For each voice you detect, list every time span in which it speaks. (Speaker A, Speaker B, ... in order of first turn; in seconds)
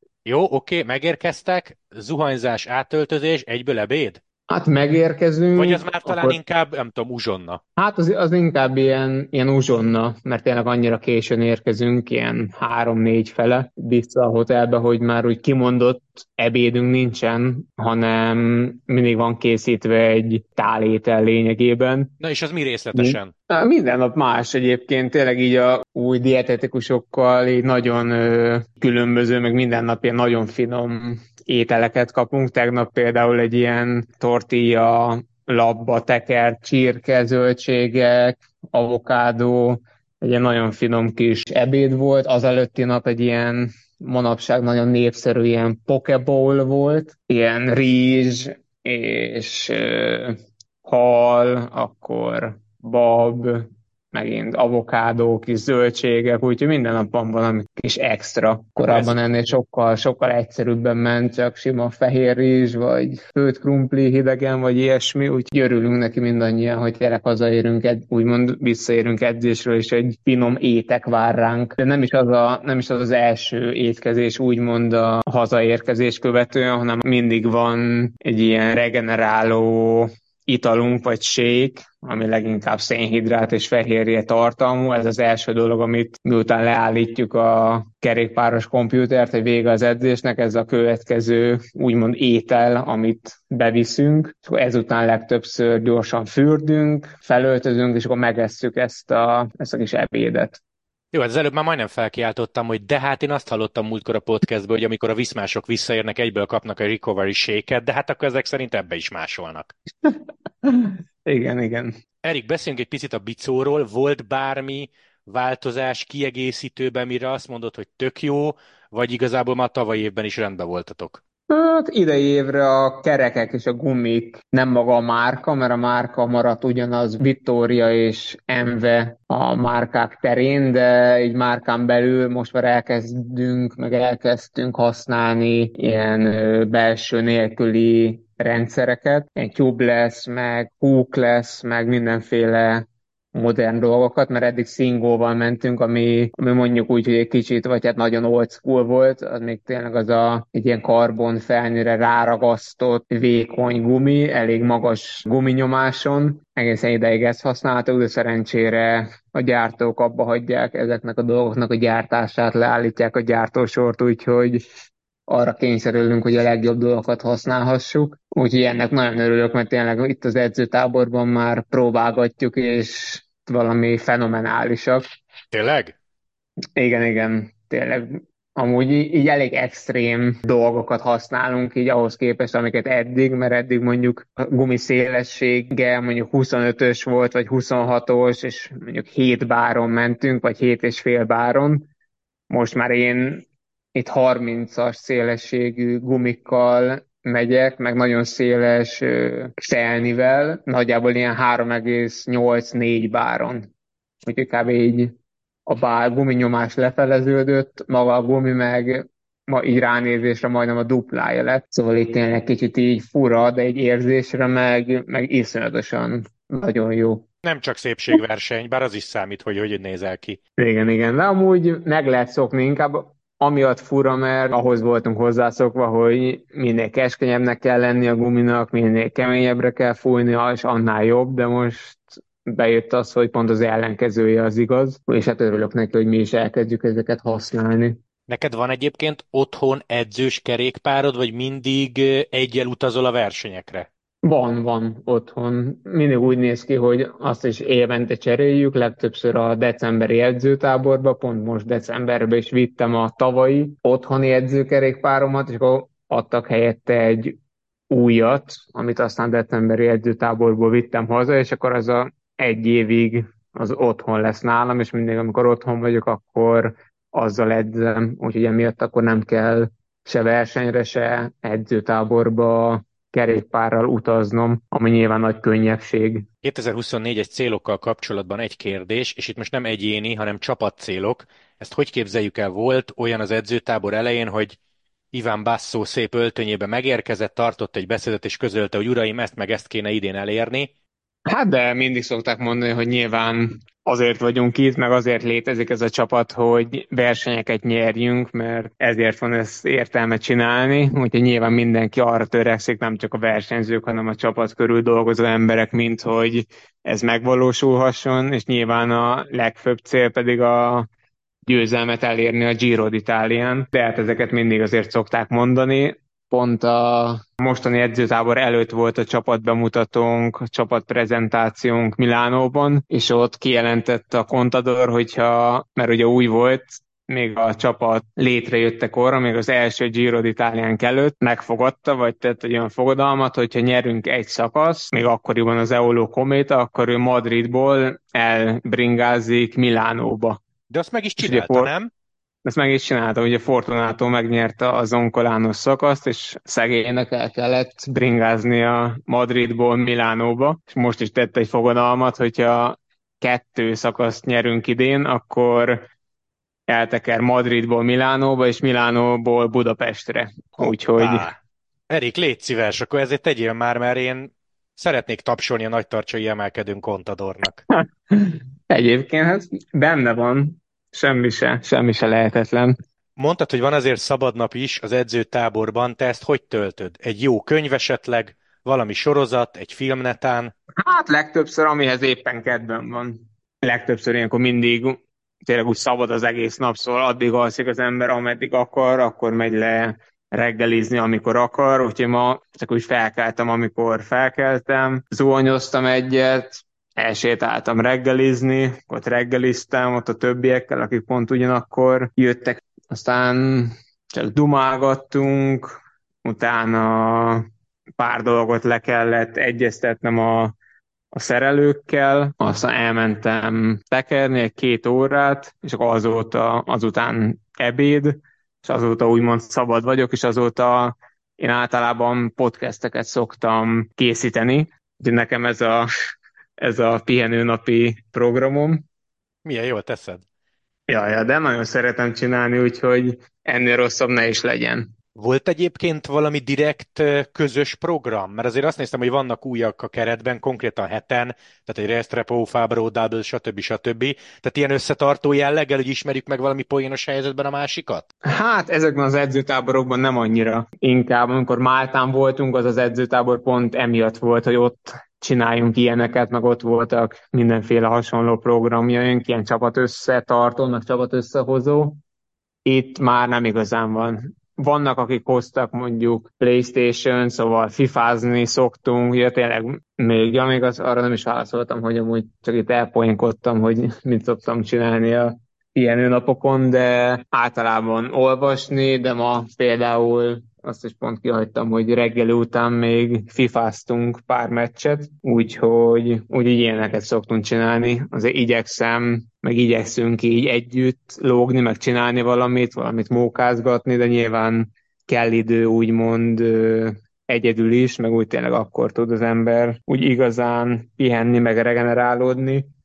Speaker A: 0.2-4.2, 5.6-7.6, 22.2-23.3, 58.9-59.2, 101.1-109.7, 112.2-121.2, 175.5-175.9, 217.4-220.4, 238.3-243.9, 276.4-284.6, 285.1-290.7, 340.7-341.9, 360.6-361.4, 361.9-367.6, 373.2-380.5, 429.4-430.2, 435.2-448.1
Speaker B: 4.5-6.4, 7.8-22.1, 22.9-100.6, 110.0-112.0, 121.5-164.6, 165.3-175.1, 176.8-191.9, 192.5-203.7, 204.3-205.2, 205.7-217.2, 220.6-238.0, 244.2-257.4, 257.9-276.3, 291.3-310.9, 311.5-340.4, 341.2-341.7, 342.4-355.9, 356.7-361.3, 367.8-372.8, 380.8-407.5, 408.0-410.6, 411.1-425.9, 426.6-428.8, 430.9-434.9, 448.2-462.0, 462.6-502.7